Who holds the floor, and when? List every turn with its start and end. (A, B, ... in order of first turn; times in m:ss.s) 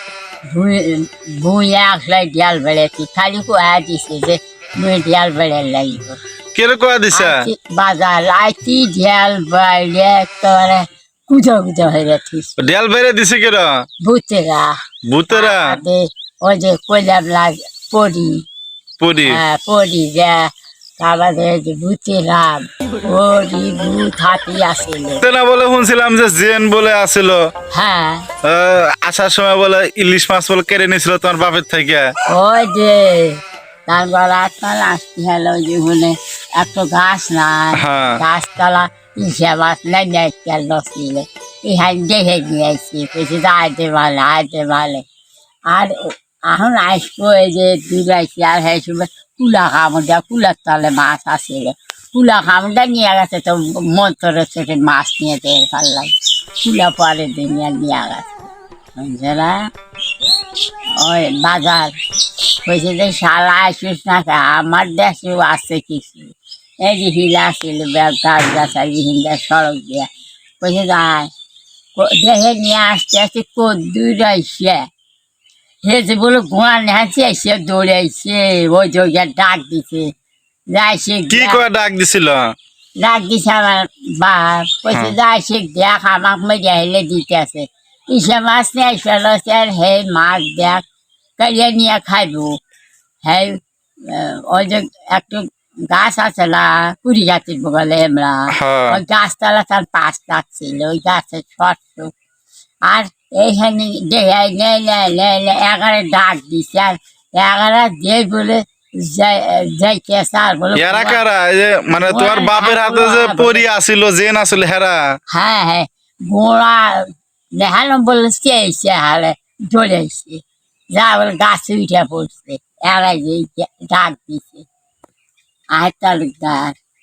0:00.5-0:06.2 A
0:06.6-0:07.5 B
0:07.1-0:12.6 A
0:12.6-0:13.8 B
0:14.0-0:14.8 A
0:15.1-0:15.8 B
0:15.3-0:18.4 A
0:19.0-0:19.4 B
0:19.2-0:25.2 A
0:25.2-0:27.4 B
0:27.7-0:28.3 A
0:28.4-0:32.1 B
0:32.3-0:45.1 A
0:37.7-0:38.2 B
0:45.7-0:59.7 A
1:01.0-1:02.0 A
1:02.6-1:10.1 A
1:10.6-1:11.3 A
1:12.0-1:14.9 A
1:15.8-1:20.1 A
1:20.7-1:21.6 A
1:21.3-1:22.5 B
1:23.0-1:30.8 A
1:31.4-1:32.6 A
1:33.2-1:42.1 A
1:38.5-1:39.0 B
1:42.8-1:51.2 A
1:50.8-1:55.0 B
1:52.0-1:53.6 A
1:55.3-2:00.4 A
2:00.9-2:04.7 A
2:05.7-2:06.8 A